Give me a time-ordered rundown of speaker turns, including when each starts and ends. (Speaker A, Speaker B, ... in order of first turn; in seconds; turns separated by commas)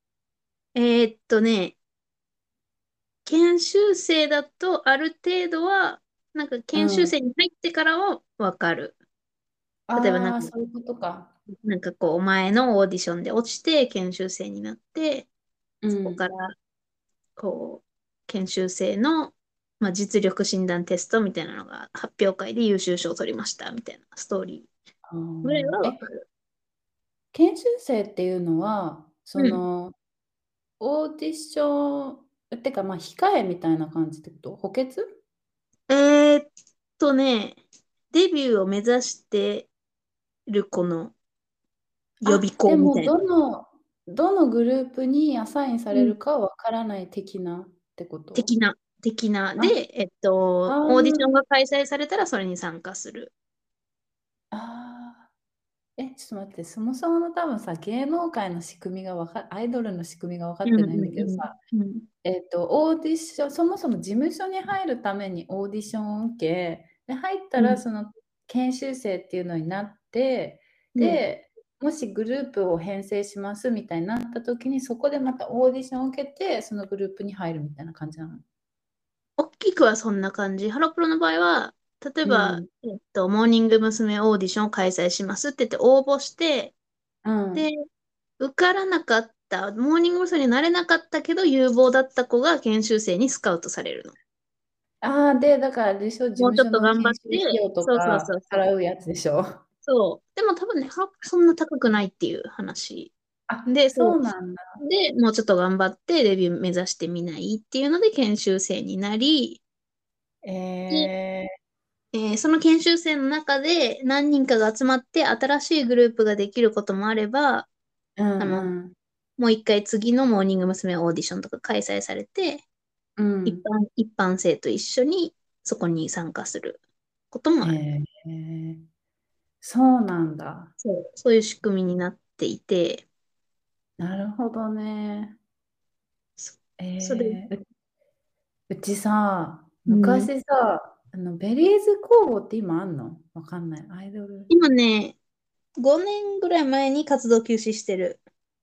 Speaker A: 0.8-1.8, Speaker A: 3.2-8.9, Speaker B: 6.7-7.1, Speaker B: 9.9-11.3, Speaker A: 9.9-10.5, Speaker A: 11.6-15.3, Speaker B: 15.8-16.2, Speaker A: 15.9-16.6, Speaker A: 17.4-24.7, Speaker B: 25.1-26.0, Speaker A: 25.4-26.2, Speaker B: 27.3-29.9, Speaker B: 30.8-35.2, Speaker A: 35.9-37.6, Speaker A: 38.1-39.7, Speaker A: 40.5-41.1, Speaker A: 42.2-43.1, Speaker B: 42.3-48.5, Speaker A: 48.4-53.3, Speaker B: 50.7-51.3, Speaker B: 54.5-55.3, Speaker B: 56.0-61.6, Speaker A: 60.7-62.1, Speaker B: 62.2-78.4, Speaker A: 71.0-71.2, Speaker A: 79.4-86.7, Speaker B: 82.2-82.7, Speaker B: 87.2-87.7, Speaker A: 87.5-87.8, Speaker A: 88.4-94.2, Speaker B: 95.0-99.6, Speaker A: 96.4-98.6, Speaker A: 99.9-103.1, Speaker B: 103.5-104.8, Speaker A: 103.7-104.2, Speaker A: 104.8-109.6, Speaker B: 110.4-111.5, Speaker A: 112.1-117.7, Speaker B: 118.2-119.0, Speaker A: 118.4-118.7, Speaker A: 119.4-122.6, Speaker B: 123.2-123.7, Speaker A: 123.5-126.8, Speaker A: 127.3-127.8, Speaker B: 127.6-128.8, Speaker B: 129.6-130.7, Speaker A: 130.8-133.1, Speaker B: 134.0-135.4, Speaker A: 136.4-137.4, Speaker B: 136.8-137.6, Speaker B: 138.7-144.5, Speaker A: 139.9-140.3, Speaker A: 144.5-145.2, Speaker A: 145.8-148.2